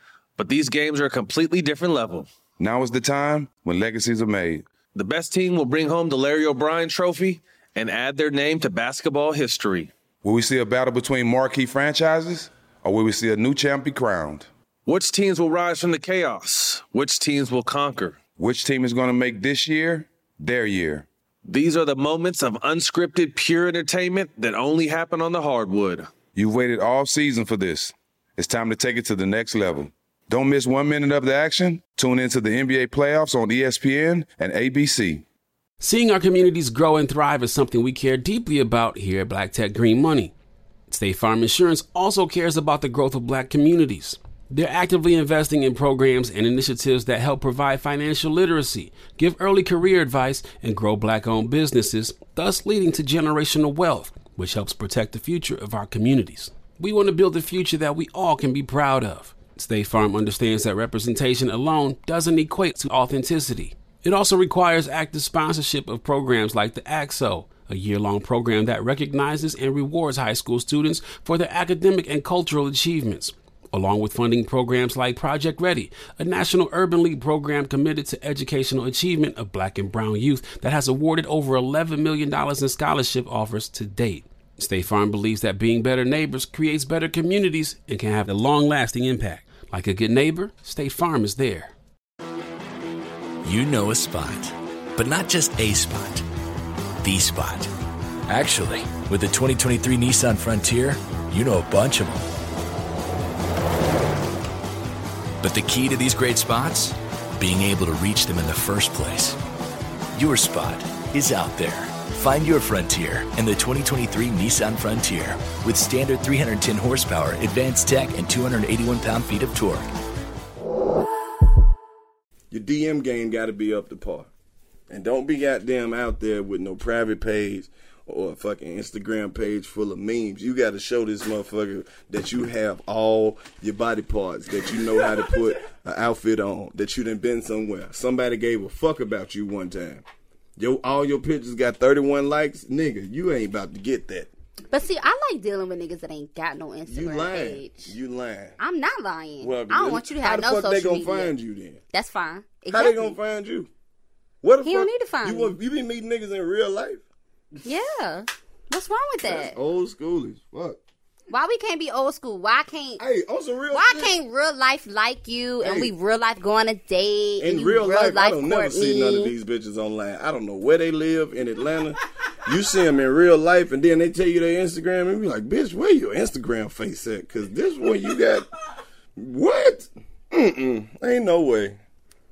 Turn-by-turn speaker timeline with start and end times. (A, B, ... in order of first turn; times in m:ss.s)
0:00.4-0:02.3 A
0:02.6-0:04.6 B
0:04.9-0:09.9 A
0:10.2-0:14.5 B
0:14.8-0:18.2 A
0:18.4-0:21.1 B
0:21.4-0:26.1 A
0:26.3-0:35.2 B
0:35.8-0:40.3 C
0:40.9-1:31.7 C
1:33.4-1:36.2 D
1:37.0-1:37.7 D
1:38.3-1:42.3 D
1:45.4-1:49.4 D
1:50.1-1:59.9 D
2:02.5-2:04.3 E
2:04.9-2:20.0 E
2:20.6-2:24.3 E
2:24.7-2:27.9 F
2:26.9-2:28.6 E
2:28.6-2:31.3 F
2:29.4-2:31.8 E
2:31.9-2:33.2 F
2:32.7-2:33.7 E
2:34.4-2:37.0 E
2:34.6-2:35.6 F
2:37.6-2:39.6 F
2:39.2-2:40.8 E
2:41.3-2:43.0 F
2:43.0-2:44.1 E
2:43.7-2:49.3 F
2:45.6-2:45.9 E
2:47.4-2:58.5 E
2:59.2-3:01.8 E